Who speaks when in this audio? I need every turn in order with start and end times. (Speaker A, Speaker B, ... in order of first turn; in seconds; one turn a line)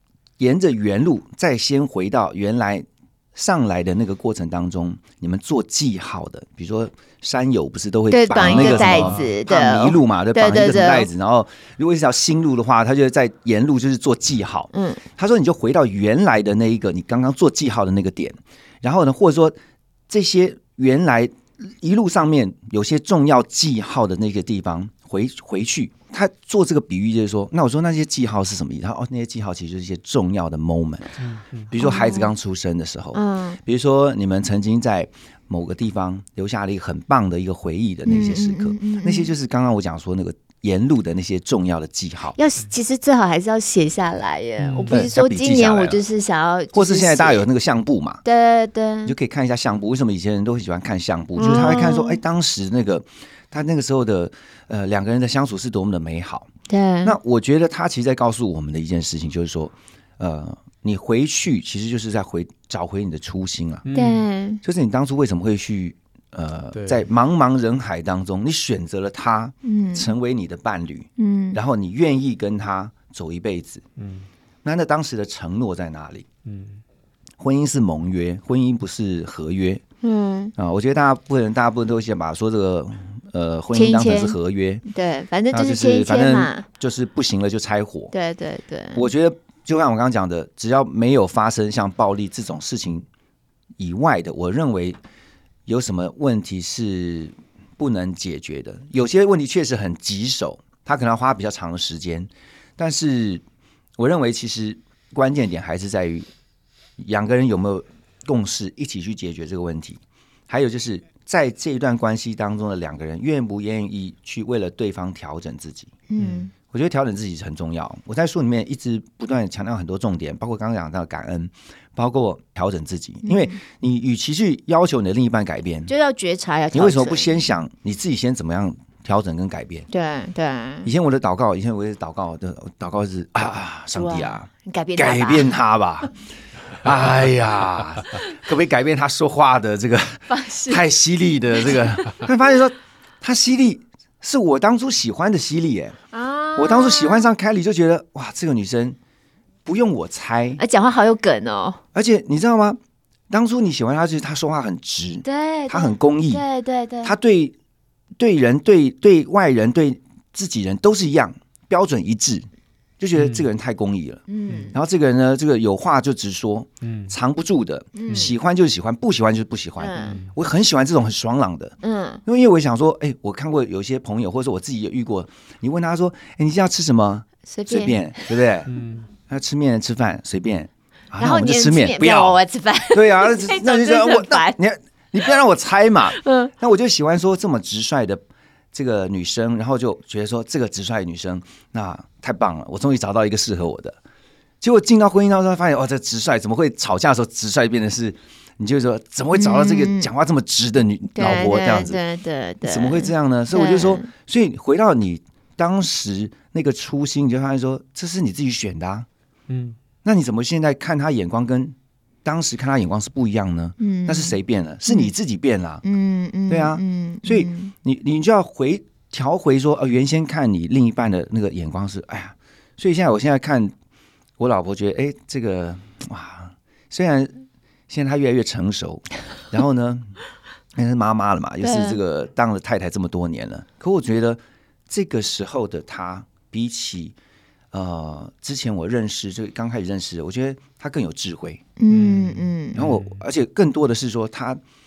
Speaker A: 0.4-19.6
Speaker B: 8.1-11.1
Speaker C: 8.4-9.3
Speaker B: 14.7-15.0
Speaker A: 20.1-31.1
Speaker C: 31.2-31.7
Speaker A: 31.7-42.4
Speaker B: 31.8-32.3
Speaker B: 33.1-33.6
Speaker B: 38.1-39.3
Speaker B: 42.4-47.5
Speaker C: 44.6-45.0
Speaker A: 44.9-46.0
Speaker A: 46.7-48.2
Speaker B: 48.2-49.1
Speaker A: 49.1-56.5
Speaker B: 51.4-52.2
Speaker B: 56.7-57.2
Speaker A: 57.0-63.9
Speaker C: 63.9-64.2
Speaker B: 63.9-64.6
Speaker A: 64.6-73.8
Speaker C: 66.7-67.1
Speaker B: 69.6-70.1
Speaker B: 71.2-71.6
Speaker C: 74.0-74.3
Speaker A: 74.6-76.3
Speaker C: 76.5-76.8
Speaker A: 77.4-79.8
Speaker B: 80.0-80.5
Speaker A: 80.6-84.8
Speaker B: 83.7-86.7
Speaker A: 85.5-88.1
Speaker B: 88.1-89.1
Speaker A: 89.0-93.1
Speaker A: 93.8-95.0
Speaker A: 95.7-103.4
Speaker A: 104.0-106.3
Speaker A: 107.0-116.0
Speaker B: 116.1-116.5
Speaker C: 116.2-116.5
Speaker A: 116.7-125.9
Speaker B: 123.2-123.6
Speaker B: 125.9-127.4
Speaker A: 126.7-129.9
Speaker B: 129.9-130.9
Speaker A: 130.8-136.1
Speaker B: 133.9-135.5
Speaker A: 136.8-146.0
Speaker B: 140.3-140.8
Speaker B: 146.1-147.3
Speaker A: 146.6-149.0
Speaker A: 149.7-150.6
Speaker B: 150.6-151.8
Speaker A: 151.9-152.8
Speaker A: 153.3-156.4
Speaker B: 155.2-157.1
Speaker A: 157.0-157.6
Speaker A: 158.2-162.4
Speaker A: 163.0-178.7
Speaker C: 163.2-163.5
Speaker B: 164.3-164.8
Speaker C: 166.8-167.1
Speaker B: 167.9-168.3
Speaker B: 169.8-170.2
Speaker C: 170.0-170.3
Speaker B: 171.8-172.2
Speaker B: 177.5-178.3
Speaker C: 178.7-179.1
Speaker A: 179.3-182.4
Speaker B: 181.2-184.6
Speaker A: 182.9-194.0
Speaker B: 186.2-186.5
Speaker A: 194.6-202.0
Speaker B: 199.3-200.1
Speaker B: 201.2-204.1
Speaker A: 202.6-209.1
Speaker C: 209.5-209.8
Speaker A: 210.0-215.8
Speaker B: 213.8-215.1
Speaker B: 215.8-217.7
Speaker A: 216.5-223.7
Speaker A: 224.4-230.2
Speaker A: 230.8-237.2
Speaker B: 231.6-232.0
Speaker A: 237.7-241.6
Speaker B: 241.8-242.8
Speaker C: 241.9-243.2
Speaker A: 242.8-244.6